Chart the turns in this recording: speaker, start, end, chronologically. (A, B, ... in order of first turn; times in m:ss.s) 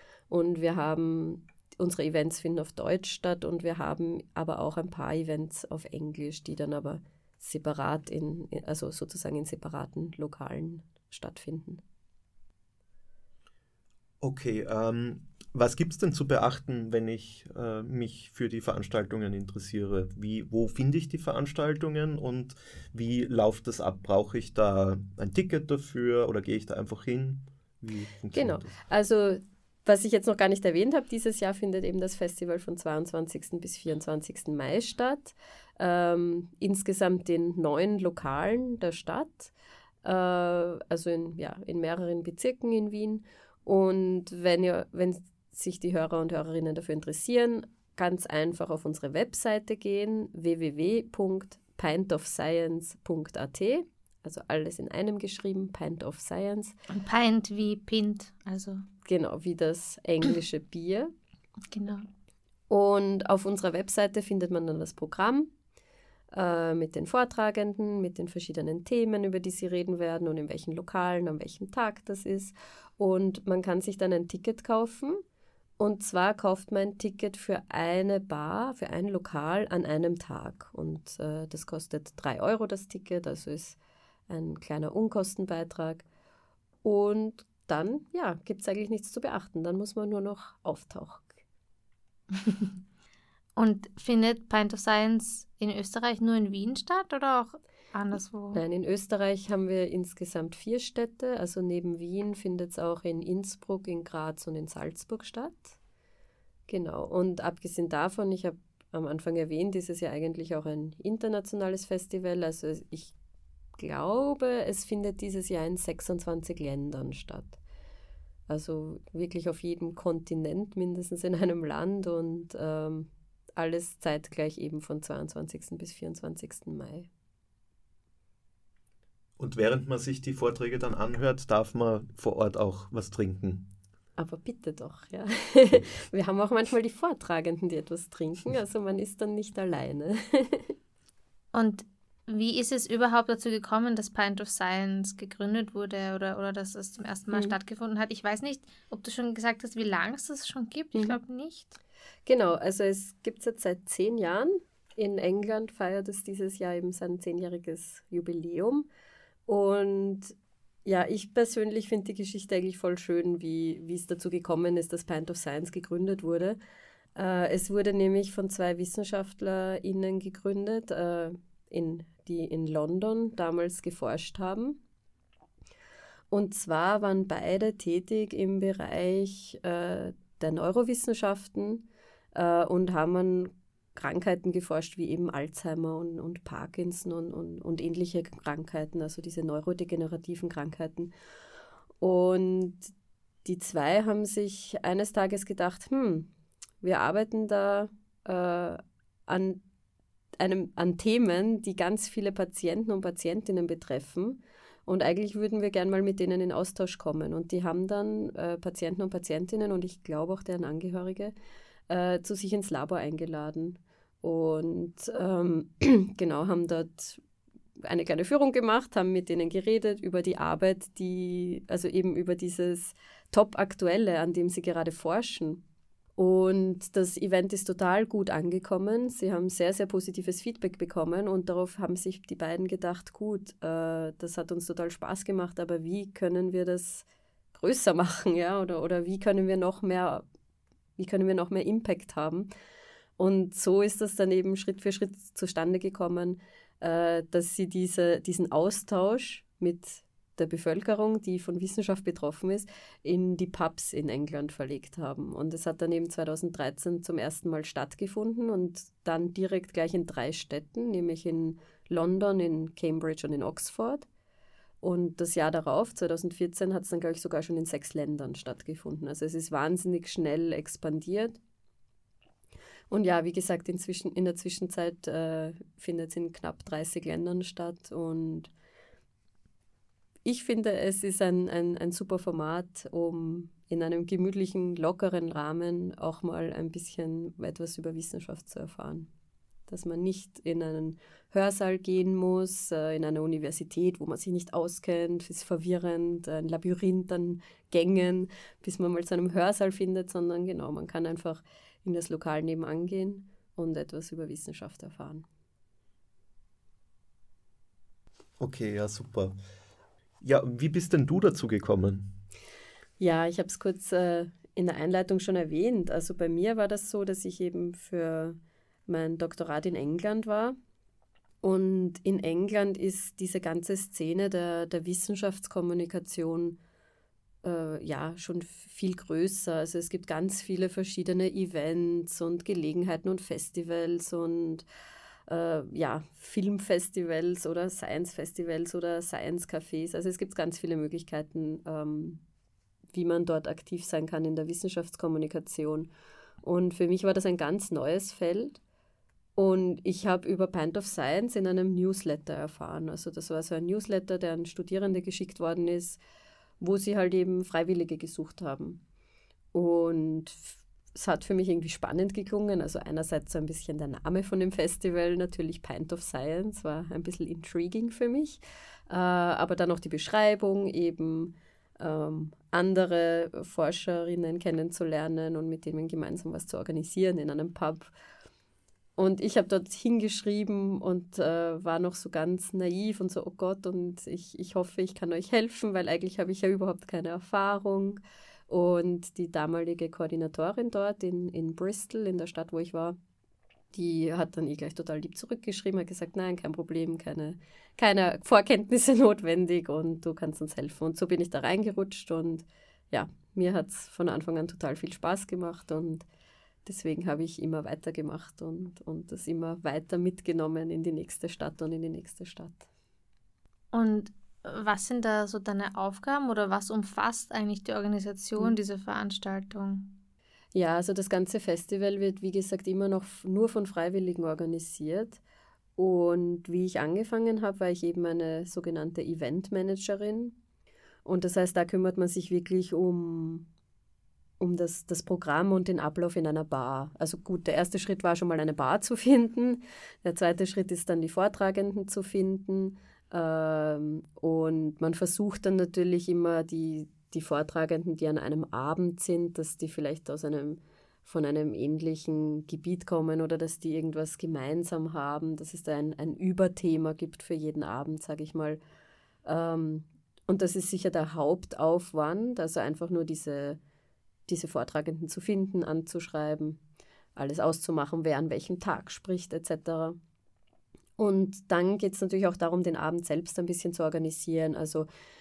0:00.3-0:11.8 A
0:14.2-0:28.8 B
0:28.3-0:39.5 A
0:40.0-0:56.8 A
0:56.9-0:58.8 C
0:59.0-1:01.1 A
1:01.7-1:02.0 C
1:02.7-1:05.5 A
1:06.3-1:15.2 A
1:15.8-1:23.8 A
1:24.3-1:26.0 A
1:26.8-1:31.3 A
1:32.3-1:32.7 C
1:33.6-1:38.6 C
1:38.5-1:45.8 A
1:46.7-1:53.1 A
1:53.8-1:57.6 A
1:58.5-2:07.1 A
2:09.4-2:13.7 B
2:14.2-2:20.8 A
2:21.5-2:31.8 C
2:30.9-2:31.2 A
2:32.3-2:38.9 A
2:39.5-2:46.6 A
2:47.2-2:54.8 A
2:56.3-3:11.1 A
3:12.0-3:12.9 A
3:13.4-3:16.3 A
3:16.8-3:19.6 A
3:20.4-3:31.3 A
3:31.9-3:37.2 A
3:37.8-3:45.6 A
3:46.2-4:00.2 A
4:01.0-4:02.5 A
4:03.2-4:24.1 A
4:24.8-4:31.4 A
4:32.9-4:38.5 A
4:40.2-4:49.1 A
4:49.7-5:05.3 A
5:08.4-5:09.4 B
5:10.2-5:12.2 B
5:13.0-5:20.6 A
5:21.4-5:26.6 A
5:27.4-5:34.6 A
5:35.3-5:42.2 A
5:42.9-5:45.9 A
5:46.4-5:48.6 A
5:49.4-5:56.0 A
5:56.6-5:58.8 A
5:59.5-6:17.9 A
6:19.0-6:33.0 A
6:33.7-6:46.0 A
6:46.6-6:52.7 A
6:53.7-7:00.0 C
7:00.5-7:05.2 A
7:05.8-7:10.4 A
7:11.0-7:13.5 A
7:14.4-7:38.6 A
7:39.2-7:43.6 A
7:44.3-7:46.6 A
7:47.2-7:50.0 A
7:51.0-7:54.9 A